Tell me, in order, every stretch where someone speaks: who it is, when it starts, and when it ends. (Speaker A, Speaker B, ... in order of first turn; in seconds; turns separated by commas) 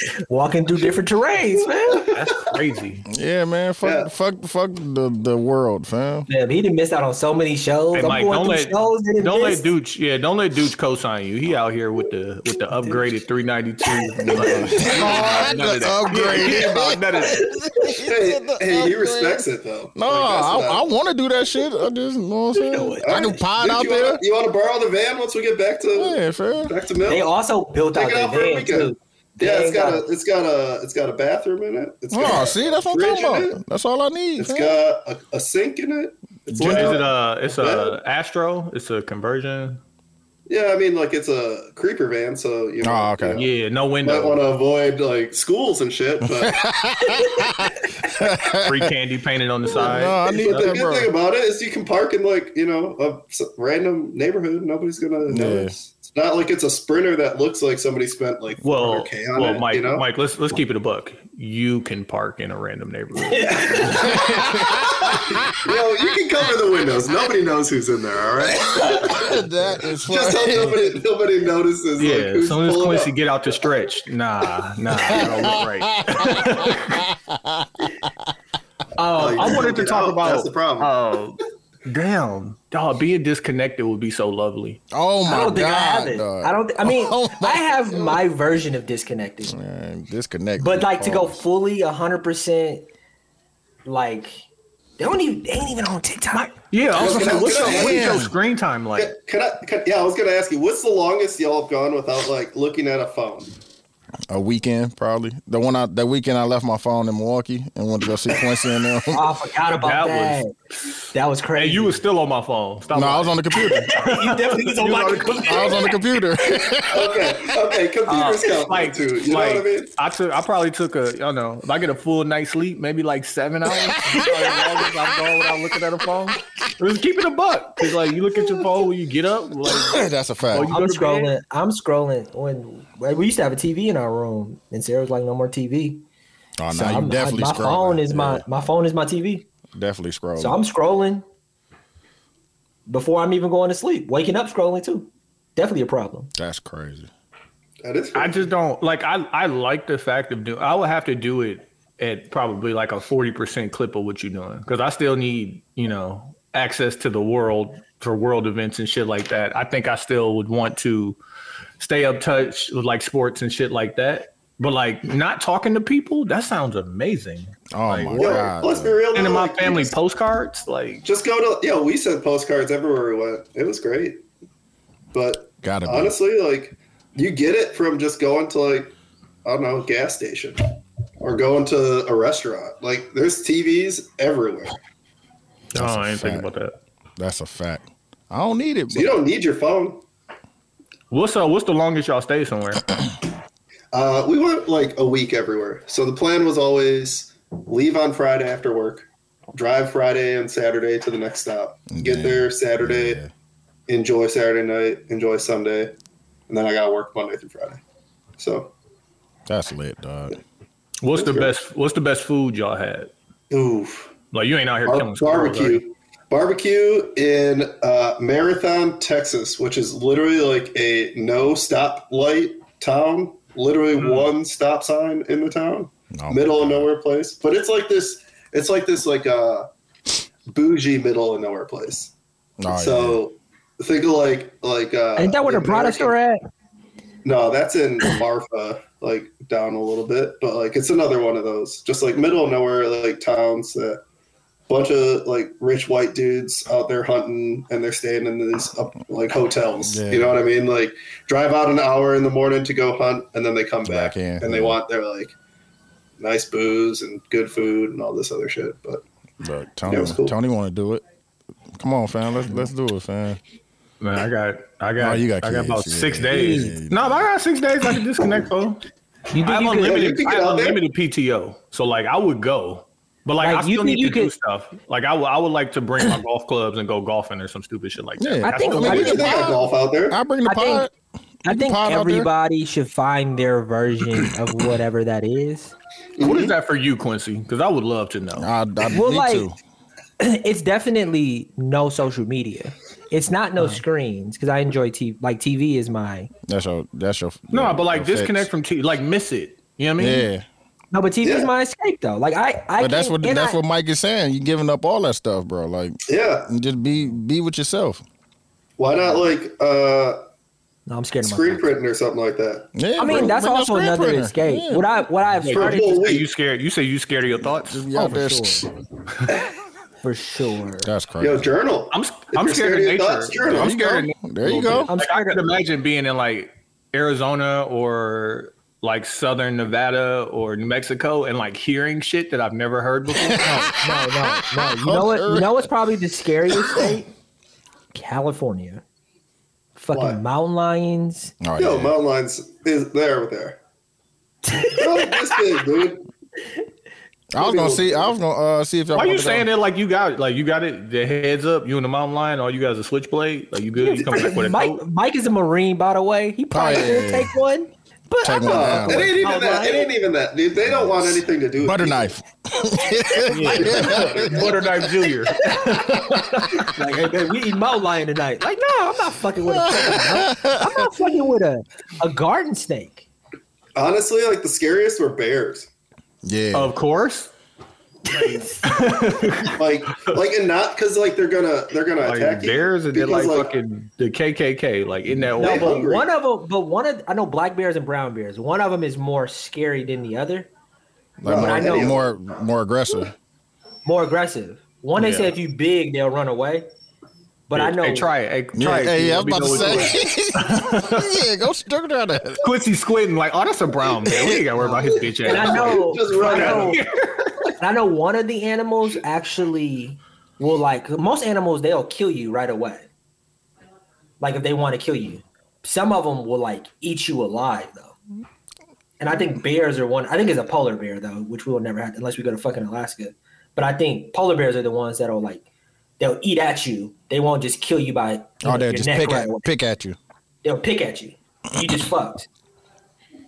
Speaker A: 0.3-2.1, Speaker B: 2.1-3.0, Speaker C: 3.1-6.3, Speaker D: 3.8-4.1, Speaker A: 6.3-9.7, Speaker B: 7.9-17.5, Speaker C: 14.2-24.2, Speaker D: 18.1-21.0, Speaker A: 22.5-23.3, Speaker D: 23.0-27.3, Speaker C: 25.9-26.7, Speaker A: 27.1-30.1, Speaker D: 27.9-33.6, Speaker C: 32.1-34.8, Speaker D: 34.4-38.0, Speaker C: 36.5-37.0, Speaker B: 36.6-39.8, Speaker D: 40.5-43.5, Speaker C: 42.8-43.4, Speaker B: 43.4-44.4, Speaker D: 44.0-46.6, Speaker C: 46.3-48.9, Speaker B: 48.6-50.8, Speaker C: 49.7-51.1, Speaker D: 49.8-60.1, Speaker C: 55.3-55.7, Speaker B: 58.6-64.5, Speaker A: 63.3-64.1, Speaker D: 63.6-64.1, Speaker C: 64.2-65.3, Speaker D: 65.6-73.1, Speaker C: 69.0-70.8, Speaker B: 72.0-77.0, Speaker C: 75.1-77.7, Speaker B: 79.0-84.8, Speaker D: 79.2-80.9, Speaker C: 84.9-88.2, Speaker A: 85.3-89.6, Speaker C: 89.5-91.4, Speaker A: 90.6-92.9, Speaker A: 93.8-94.4, Speaker A: 95.0-96.5, Speaker B: 96.5-99.1, Speaker D: 96.9-98.3, Speaker C: 97.3-98.3, Speaker D: 99.0-103.5, Speaker C: 104.3-109.2, Speaker A: 109.1-110.5, Speaker B: 109.8-111.0, Speaker A: 111.1-112.0, Speaker B: 111.5-115.8, Speaker C: 112.9-113.9, Speaker A: 113.9-115.9, Speaker C: 115.5-117.4, Speaker D: 116.9-119.9, Speaker B: 118.1-131.3, Speaker C: 129.7-130.8, Speaker A: 130.7-136.0, Speaker C: 136.6-138.4, Speaker A: 136.7-139.4, Speaker C: 139.8-140.6, Speaker A: 140.4-141.2, Speaker A: 142.9-146.3, Speaker C: 146.4-147.1, Speaker D: 147.8-148.5, Speaker B: 148.2-161.2, Speaker B: 161.8-168.5, Speaker C: 167.7-169.0, Speaker D: 168.1-169.9, Speaker B: 169.1-171.0, Speaker D: 171.0-174.2, Speaker D: 175.1-178.9, Speaker C: 175.6-176.2, Speaker D: 179.4-180.6, Speaker D: 181.2-184.8, Speaker C: 185.7-186.5, Speaker B: 185.7-186.8, Speaker C: 187.2-189.2, Speaker D: 188.9-190.0, Speaker B: 191.1-192.8, Speaker D: 193.9-203.2, Speaker C: 201.9-203.3, Speaker D: 203.9-205.9, Speaker D: 206.5-207.8, Speaker D: 208.4-208.7, Speaker C: 209.5-210.4, Speaker B: 211.0-213.1, Speaker D: 211.2-211.5, Speaker D: 213.5-214.1, Speaker B: 214.3-215.8, Speaker D: 214.9-229.7, Speaker B: 224.0-224.3, Speaker C: 226.1-226.9, Speaker D: 230.5-232.1, Speaker C: 232.6-233.2, Speaker D: 232.7-236.1, Speaker A: 235.2-236.4, Speaker D: 237.2-244.0, Speaker D: 244.7-255.3, Speaker C: 249.8-250.3, Speaker C: 253.8-254.8, Speaker D: 256.2-259.0, Speaker C: 259.4-261.0, Speaker D: 259.9-260.3, Speaker C: 261.8-263.4, Speaker B: 264.0-268.8, Speaker C: 265.0-267.3, Speaker A: 266.3-266.7, Speaker A: 269.3-270.0, Speaker B: 269.4-279.5, Speaker D: 269.8-270.8, Speaker A: 273.4-274.3, Speaker C: 278.2-280.9, Speaker A: 278.4-279.6, Speaker D: 278.8-280.2, Speaker A: 280.4-280.9, Speaker C: 281.4-282.3, Speaker A: 281.4-285.7, Speaker D: 286.2-286.5, Speaker B: 286.2-288.5, Speaker C: 288.4-289.6, Speaker A: 288.9-289.5, Speaker A: 290.2-296.3, Speaker C: 296.5-298.5, Speaker B: 297.5-300.3, Speaker C: 300.0-300.4, Speaker A: 300.9-303.6, Speaker D: 301.2-301.5, Speaker C: 302.8-308.0, Speaker D: 306.1-306.5, Speaker D: 308.8-310.2, Speaker A: 310.9-311.7, Speaker D: 311.2-312.7, Speaker C: 312.8-314.9, Speaker A: 313.0-316.2, Speaker B: 315.4-317.8, Speaker D: 315.5-316.3, Speaker C: 317.5-318.7, Speaker A: 317.9-318.7, Speaker A: 320.0-320.9, Speaker C: 320.8-321.5, Speaker D: 321.2-323.8, Speaker B: 321.9-333.5, Speaker C: 323.5-324.9, Speaker A: 324.9-325.5, Speaker C: 333.1-335.7, Speaker A: 333.4-337.1, Speaker C: 336.5-336.9, Speaker A: 337.9-338.8, Speaker A: 339.8-341.4, Speaker D: 339.9-340.2, Speaker C: 341.4-341.9, Speaker D: 341.6-343.6, Speaker A: 344.5-345.2, Speaker D: 344.7-346.1, Speaker C: 347.3-349.5, Speaker D: 347.4-348.2, Speaker B: 348.9-354.8, Speaker A: 353.8-359.9, Speaker C: 356.5-357.4, Speaker C: 358.2-359.1, Speaker D: 358.4-362.1, Speaker C: 360.6-364.7, Speaker B: 363.3-366.6, Speaker D: 363.5-364.9, Speaker A: 365.4-365.9, Speaker A: 366.5-373.1, Speaker C: 369.5-370.9, Speaker D: 373.8-375.7, Speaker C: 376.2-376.7, Speaker B: 376.5-377.3, Speaker A: 378.1-378.7, Speaker B: 378.1-380.1, Speaker D: 379.6-383.5, Speaker B: 382.0-385.7, Speaker D: 385.4-386.1, Speaker A: 385.4-390.5, Speaker C: 391.2-393.1, Speaker D: 391.2-392.1, Speaker A: 391.3-391.9, Speaker A: 393.9-396.7, Speaker B: 395.0-395.4, Speaker A: 397.5-398.1, Speaker B: 397.5-401.2, Speaker C: 398.6-402.4, Speaker B: 402.4-407.3, Speaker A: 404.6-406.8, Speaker D: 405.2-406.8, Speaker A: 407.6-412.9, Speaker A: 414.2-417.9, Speaker A: 419.0-425.4, Speaker A: 426.0-429.5, Speaker C: 428.4-430.0, Speaker A: 430.4-432.3